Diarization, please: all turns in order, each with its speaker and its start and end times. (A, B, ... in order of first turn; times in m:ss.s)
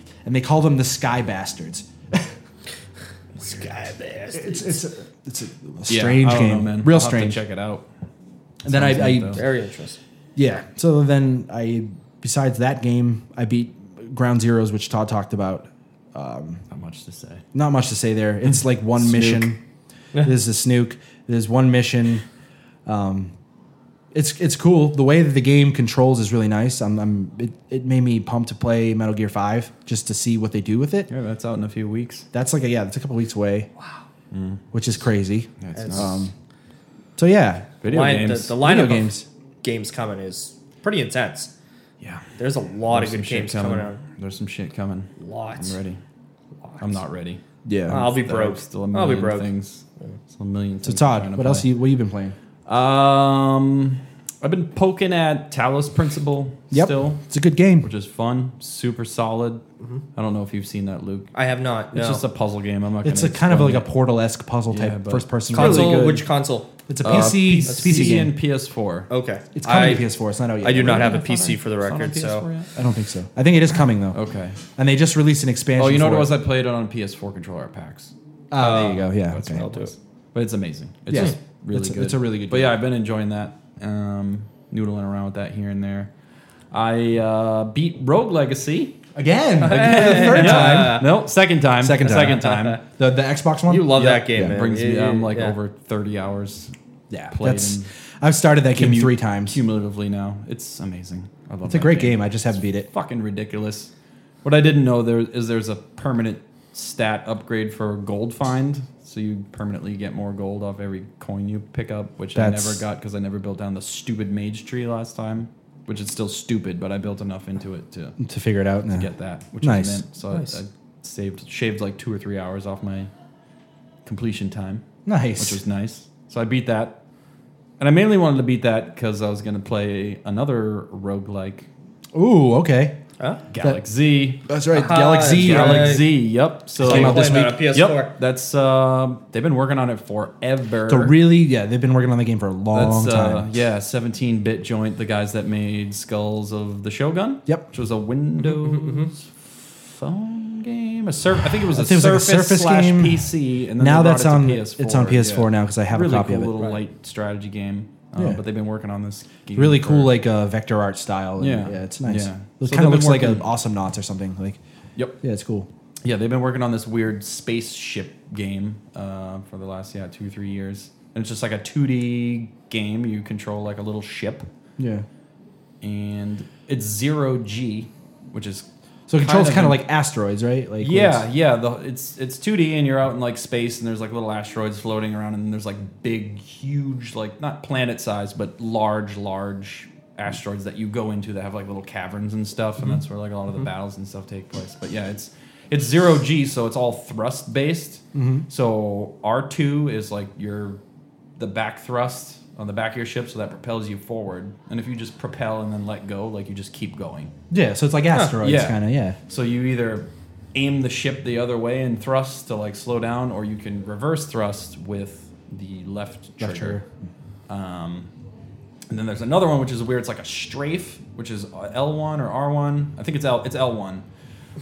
0:00.2-0:02.3 A
0:03.4-0:03.7 B
0:03.4-0:04.8 C
0:04.3-0:07.4 A
0:05.9-0:07.9 B
0:08.6-0:09.4 A
0:08.7-0:09.4 B
0:09.3-0:10.0 C
0:10.4-0:16.6 A
0:16.7-0:17.4 B
0:17.5-0:19.6 A
0:18.5-0:19.5 B
0:20.2-0:22.2 A
0:22.9-0:23.3 A
0:24.1-0:31.1 A
0:31.1-0:32.3 B
0:32.3-0:33.7 A
0:34.3-0:34.6 B
0:34.7-0:36.3 A
0:35.6-0:36.3 B
0:35.8-0:36.2 C
0:37.2-0:37.8 A
0:37.8-0:38.6 B
0:37.9-0:41.5 C
0:38.6-0:39.2 A
0:42.4-0:44.0 C
0:42.9-0:46.0 B
0:45.2-0:45.8 C
0:46.6-0:47.0 C
0:46.8-0:51.7 B
0:47.6-0:48.1 A
0:47.9-0:49.5 C
0:50.8-0:52.4 A
0:52.7-0:57.2 B
0:56.7-0:57.9 A
0:57.8-0:59.6 B
1:00.2-1:01.3 B
1:01.3-1:02.2 C
1:01.9-1:03.9 B
1:03.0-1:06.2 A
1:04.7-1:06.2 B
1:05.5-1:08.2 C
1:06.9-1:08.3 A
1:07.0-1:09.1 B
1:09.1-1:10.1 C
1:09.6-1:11.2 A
1:10.6-1:12.4 C
1:10.8-1:12.8 B
1:12.8-1:16.3 A
1:14.1-1:14.6 B
1:15.8-1:26.1 B
1:18.5-1:19.6 A
1:18.6-1:19.9 C
1:21.1-1:22.8 A
1:26.7-1:29.0 B
1:29.2-1:31.1 A
1:29.6-1:31.1 C
1:29.7-1:32.8 B
1:31.8-1:34.6 A
1:32.2-1:32.8 C
1:33.7-1:35.6 C
1:34.0-1:36.7 B
1:37.1-1:39.6 A
1:37.3-1:37.9 B
1:38.7-1:42.3 B
1:41.7-1:42.9 A
1:42.9-1:43.9 B
1:44.4-1:58.2 B
1:52.4-1:52.8 A
1:58.2-1:59.1 A
1:58.9-2:03.1 B
1:59.6-2:00.0 A
2:04.0-2:04.8 B
2:05.1-2:05.6 A
2:05.4-2:07.0 B
2:07.8-2:11.7 B
2:12.1-2:13.0 A
2:13.5-2:14.5 B
2:14.5-2:16.1 A
2:14.7-2:16.1 C
2:15.3-2:21.2 B
2:16.8-2:17.6 A
2:16.8-2:18.1 C
2:20.9-2:23.5 A
2:22.7-2:40.2 B
2:28.4-2:29.1 C
2:31.6-2:36.6 A
2:39.6-2:44.6 A
2:41.4-2:43.5 B
2:45.2-2:45.7 A
2:46.0-2:54.5 B
2:54.8-2:55.1 A
2:55.8-2:58.7 B
2:59.1-3:01.2 A
2:59.2-2:59.8 B
3:00.8-3:20.8 B
3:18.1-3:18.5 A
3:21.4-3:27.3 B
3:27.5-3:29.2 A
3:28.4-3:36.8 B
3:36.4-3:36.9 A
3:37.5-3:38.1 B
3:38.9-3:44.0 B